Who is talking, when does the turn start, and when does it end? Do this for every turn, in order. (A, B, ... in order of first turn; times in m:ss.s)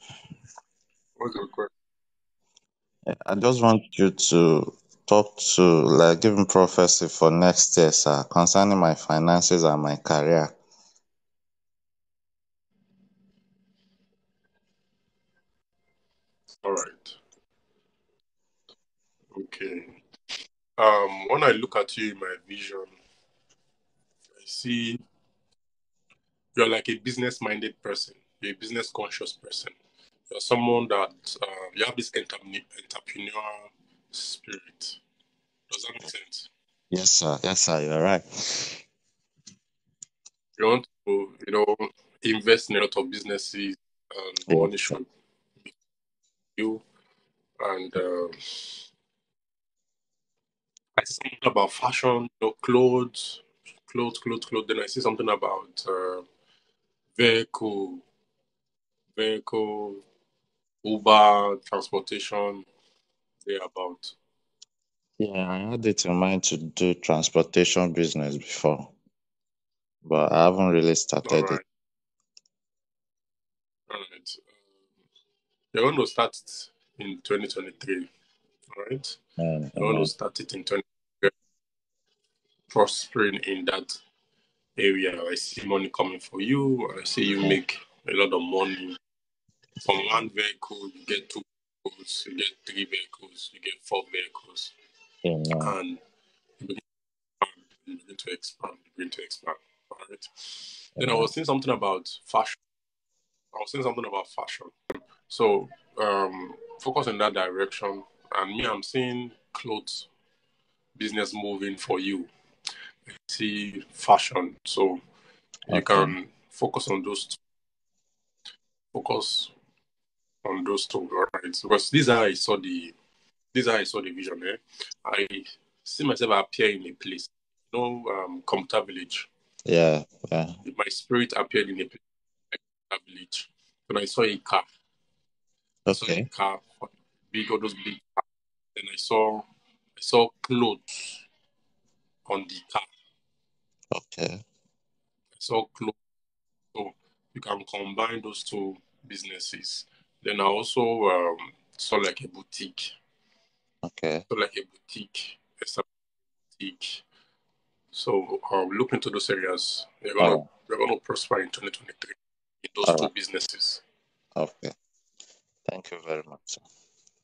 0:01.2-0:01.7 A
0:03.1-0:10.5 B
0:16.6-0:17.2 A
0:19.3-0:20.0 A
0:20.8-0:22.9 A
0:24.4-0:25.0 A
0:26.5-0:29.7 A
0:30.3-0:35.0 A
0:35.7-0:36.5 A
0:36.9-0:38.8 B
0:40.6-0:45.1 A
0:44.5-0:45.0 B
0:46.6-0:46.8 A
0:47.6-0:48.8 A
0:51.0-0:56.2 A
0:57.1-0:58.0 A
0:59.2-1:00.0 A
1:00.8-1:02.7 A
1:03.4-1:04.2 A
1:05.2-1:08.9 B
1:10.0-1:11.6 B
1:11.2-1:11.6 A
1:13.9-1:14.4 A
1:15.7-1:18.1 A
1:18.7-1:19.2 A
1:19.4-1:20.1 B
1:19.8-1:21.3 A
1:22.7-1:24.0 A
1:24.8-1:29.0 A
1:29.8-1:34.7 A
1:35.2-1:35.7 B
1:35.6-1:36.0 A
1:36.6-1:36.8 A
1:37.4-1:42.6 A
1:41.0-1:41.3 B
1:43.5-1:44.7 A
1:45.3-1:50.1 A
1:51.0-1:52.3 A
1:53.1-1:55.0 A
1:55.7-1:56.1 B
1:55.7-1:57.4 A
1:58.9-1:59.5 A
2:00.4-2:02.9 A
2:03.5-2:09.3 A
2:09.6-2:10.6 B
2:10.6-2:14.6 A
2:15.9-2:16.3 B
2:15.9-2:18.2 A
2:18.7-2:19.4 A
2:20.0-2:21.2 A
2:22.3-2:22.9 A
2:23.9-2:24.4 B
2:25.4-2:26.0 A
2:26.7-2:32.9 A
2:33.8-2:34.2 B
2:34.3-2:35.8 A
2:36.6-2:37.0 A
2:37.9-2:43.8 A
2:40.2-2:40.5 B
2:42.8-2:43.1 B
2:44.4-2:44.7 B
2:45.6-2:46.6 B